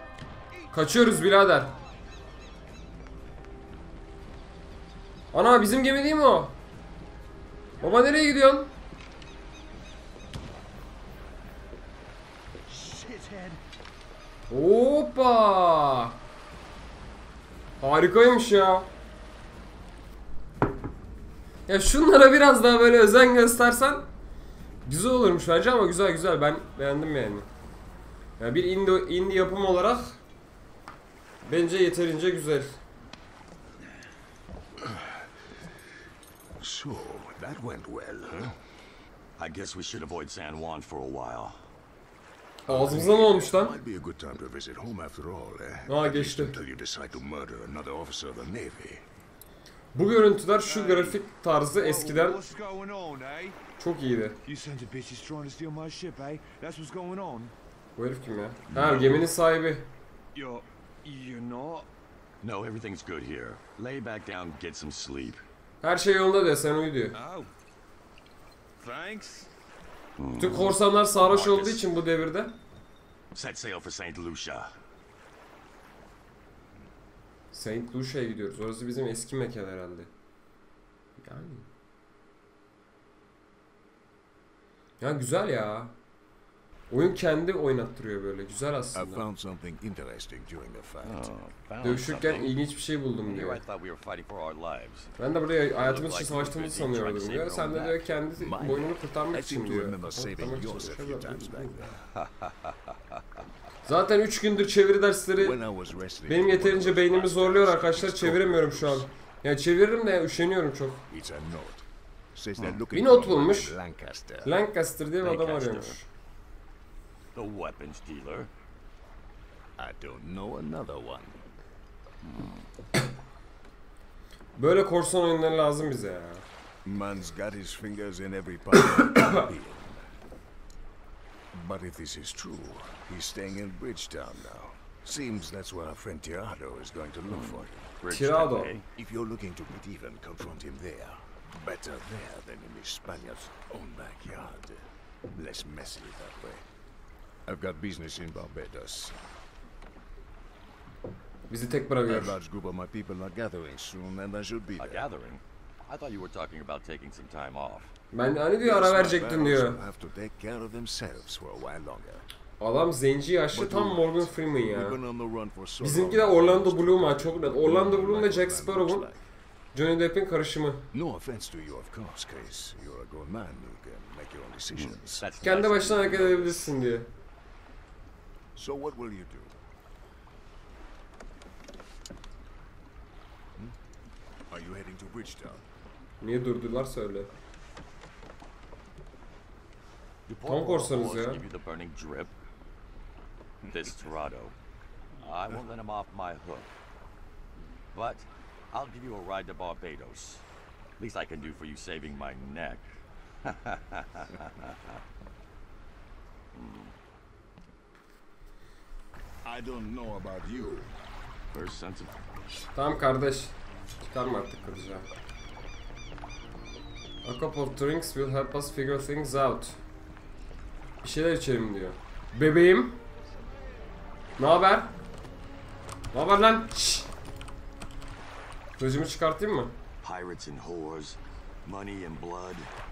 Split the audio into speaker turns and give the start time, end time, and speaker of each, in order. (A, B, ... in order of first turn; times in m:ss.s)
0:00.6-0:01.4 A
0:00.7-0:01.7 B
0:05.3-0:06.6 B
0:07.8-0:08.7 B
0:12.7-0:13.6 A
0:14.5-0:16.2 B
0:17.8-0:18.9 B
0:21.7-0:24.1 B
0:24.8-0:27.4 B
0:28.4-0:30.2 B
0:31.4-0:32.8 B
0:34.8-0:35.3 C
0:36.6-0:38.6 C
0:39.4-0:41.6 D
0:42.6-0:43.8 B
0:42.6-0:49.0 C
0:45.9-0:46.5 B
0:49.9-0:52.4 B
0:50.6-0:53.6 A
0:53.8-0:54.4 B
0:54.4-0:57.5 A
0:58.0-0:59.9 B
0:58.7-0:59.2 C
1:00.3-1:01.9 A
1:02.4-1:05.4 D
1:05.8-1:07.2 B
1:07.1-1:07.5 A
1:08.8-1:09.5 A
1:10.2-1:11.9 D
1:10.4-1:12.6 B
1:13.3-1:14.7 D
1:17.5-1:20.1 B
1:21.2-1:21.6 B
1:25.0-1:25.9 B
1:26.9-1:29.2 B
1:28.9-1:31.3 C
1:31.0-1:32.6 D
1:31.8-1:33.6 B
1:33.2-1:35.2 D
1:35.2-1:41.9 B
1:35.8-1:38.0 D
1:38.4-1:42.0 C
1:42.1-1:43.2 D
1:43.8-1:45.6 B
1:45.4-1:49.1 C
1:46.3-1:51.0 B
1:51.1-1:54.6 C
1:52.9-1:53.7 B
1:54.4-1:56.0 B
1:55.2-1:56.0 D
1:57.3-1:58.5 D
1:59.8-2:01.4 C
2:02.2-2:02.6 D
2:04.6-2:06.4 B
2:06.8-2:10.0 C
2:11.5-2:17.9 C
2:17.3-2:18.8 D
2:18.1-2:18.7 B
2:19.0-2:26.6 C
2:27.4-2:29.2 C
2:31.5-2:32.3 B
2:32.0-2:35.1 C
2:34.8-2:37.9 D
2:38.1-2:39.8 B
2:38.6-2:42.2 C
2:42.6-2:45.0 B
2:43.5-2:49.2 C
2:45.8-2:49.1 B
2:49.7-2:50.8 B
2:50.9-2:55.3 C
2:54.8-2:56.8 D
2:55.4-2:57.1 B
2:58.5-2:59.6 C
3:04.5-3:05.6 C
3:06.2-3:07.3 B
3:10.3-3:12.3 D
3:10.4-3:11.4 B
3:13.6-3:14.5 D
3:15.2-3:16.7 D
3:17.9-3:20.4 D
3:21.0-3:22.8 D
3:23.4-3:24.8 D
3:26.5-3:26.9 D
3:29.4-3:30.9 C
3:31.5-3:32.1 D
3:32.7-3:35.1 B
3:37.2-3:39.8 B
3:41.0-3:43.0 B
3:44.4-3:44.9 B
3:46.1-3:47.1 B
3:48.8-3:49.7 B
3:50.0-3:52.7 D